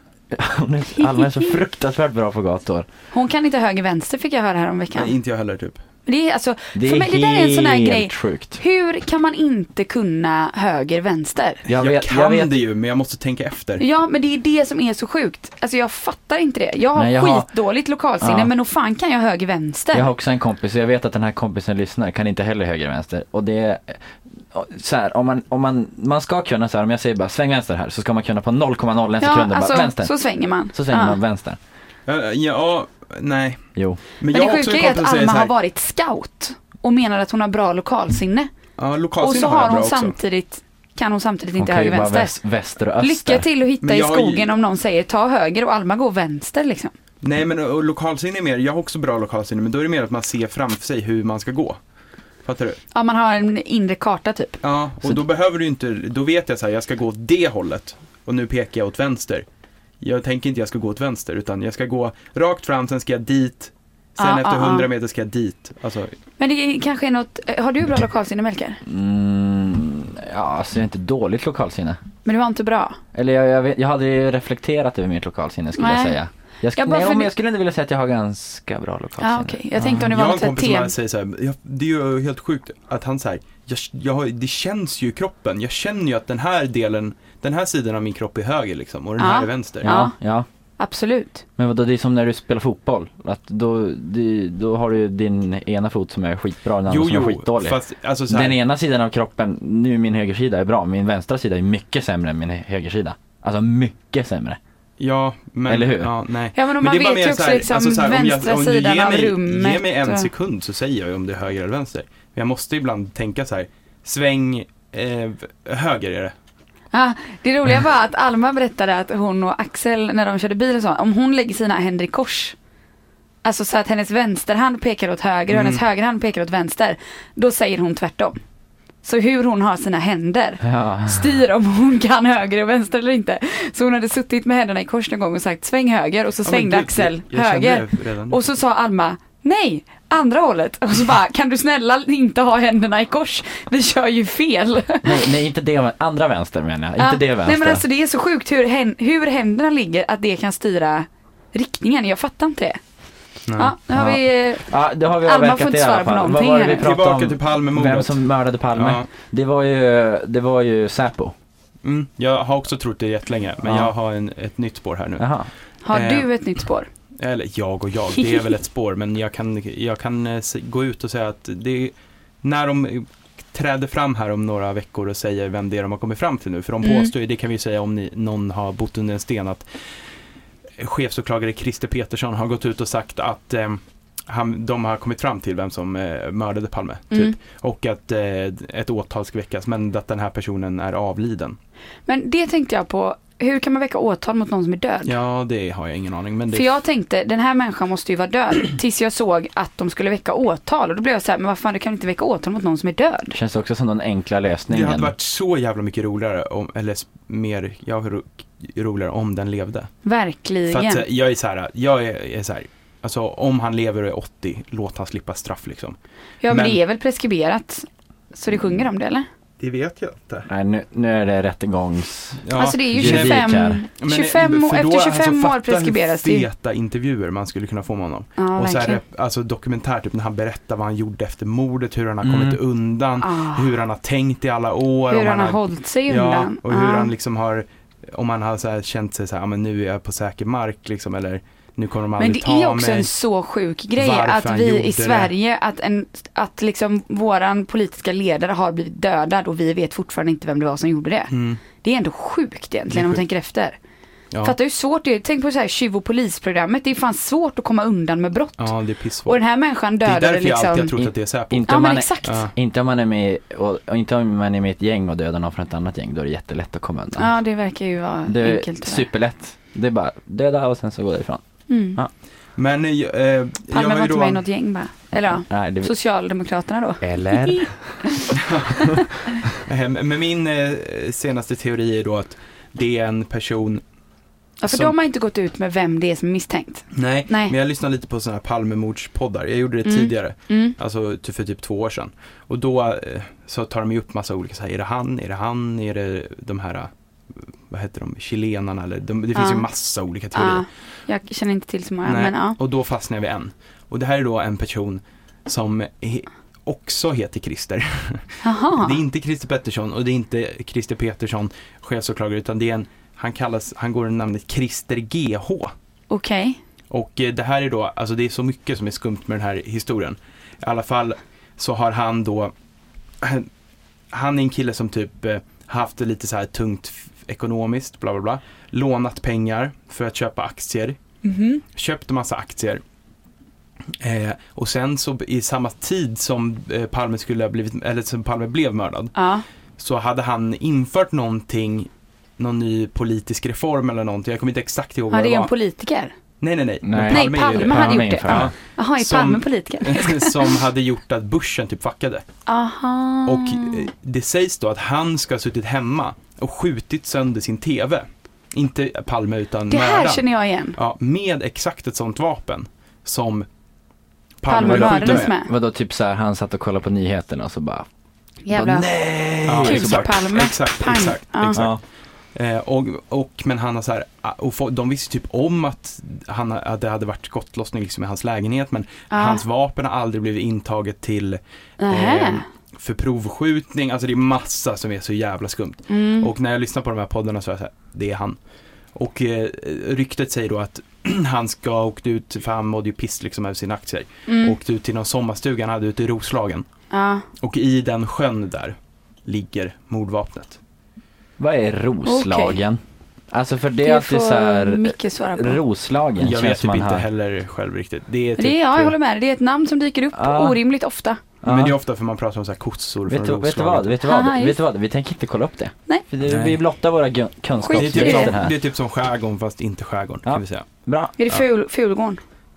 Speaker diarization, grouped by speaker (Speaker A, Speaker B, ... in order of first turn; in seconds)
Speaker A: 0.3-2.9, 6.7-8.6, 11.7-12.6, 16.9-17.5, 18.2-18.5, 19.9-30.1, 30.7-31.6, 41.6-43.5, 68.8-72.0, 73.1-80.0, 89.8-90.5, 91.6-104.6, 105.7-106.1, 130.6-131.3, 145.0-147.8, 153.9-161.3, 163.6-163.9, 165.2-165.5, 203.3-205.1, 220.5-223.8, 232.2-232.6, 261.5-267.3, 268.3-271.4, 275.5-275.9, 277.0-277.8, 346.8-348.5, 364.6-367.9, 368.5-370.2, 371.5-371.8, 401.4-402.8, 403.3-407.1, 410.1-410.6, 411.4-411.8, 413.1-418.5, 420.2-421.1
Speaker B: 1.0-1.6, 3.1-5.1, 6.0-11.6, 13.8-20.1, 29.2-31.2, 34.3-38.5, 39.2-42.4, 43.0-46.9, 52.9-54.6, 64.2-64.9, 66.4-68.8, 72.2-73.0, 75.8-76.2, 76.8-77.3, 79.2-80.9, 89.2-90.1, 90.8-91.4, 106.5-110.3, 116.9-122.5, 123.4-128.4, 129.0-145.3, 147.0-152.8, 153.6-156.9, 165.8-166.9, 176.8-177.1, 187.1-187.3, 192.1-195.1, 196.5-203.3, 210.0-211.0, 216.4-219.2, 222.5-226.5, 228.4-229.0, 233.2-233.7, 235.1-237.1, 242.2-253.8, 254.4-258.7, 259.2-261.1, 261.7-262.4, 267.1-269.1, 271.7-272.0, 273.7-279.0, 284.6-287.5, 289.8-290.7, 299.3-299.7, 300.3-302.6, 308.4-309.0, 316.1-316.6, 331.2-331.6, 339.1-339.4, 345.1-346.1, 347.1-350.5, 352.5-353.8, 359.7-360.8, 364.4-365.5, 368.4-368.9, 369.6-371.6, 379.1-379.4, 381.8-382.4, 385.9-386.3, 394.3-394.6, 396.9-397.2, 402.0-402.6, 403.8-405.6, 408.4-411.2, 414.0-414.6, 417.6-418.4, 421.2-422.2
Speaker C: 4.9-5.8, 11.7-13.8, 32.1-33.6, 34.2-35.5, 38.8-40.1, 43.8-44.5, 47.2-51.8, 52.4-52.8, 54.6-59.5, 60.0-66.1, 79.9-89.9, 96.9-98.6, 105.0-116.3, 125.5-125.8, 136.4-138.4, 153.5-153.7, 156.8-159.1, 161.8-165.3, 165.9-166.3, 167.2-179.7, 180.8-191.6, 195.0-196.7, 204.7-209.9, 210.7-215.9, 216.5-216.8, 219.6-220.5, 222.4-243.1, 244.0-245.3, 251.3-251.6, 252.9-253.2, 258.6-259.4, 260.0-262.5, 272.6-274.4, 278.4-278.9, 279.5-283.8, 284.7-284.9, 286.9-296.9, 297.6-300.6, 302.0-315.7, 316.9-322.5, 323.2-323.5, 324.1-331.0, 331.7-332.8, 334.0-339.1, 339.8-345.5, 346.4-352.2, 353.2-363.5, 364.4-365.3, 369.4-371.8, 372.3-388.4, 388.9-396.6, 397.4-400.6, 406.2-408.9, 411.4-413.9, 416.2-416.6, 417.8-420.7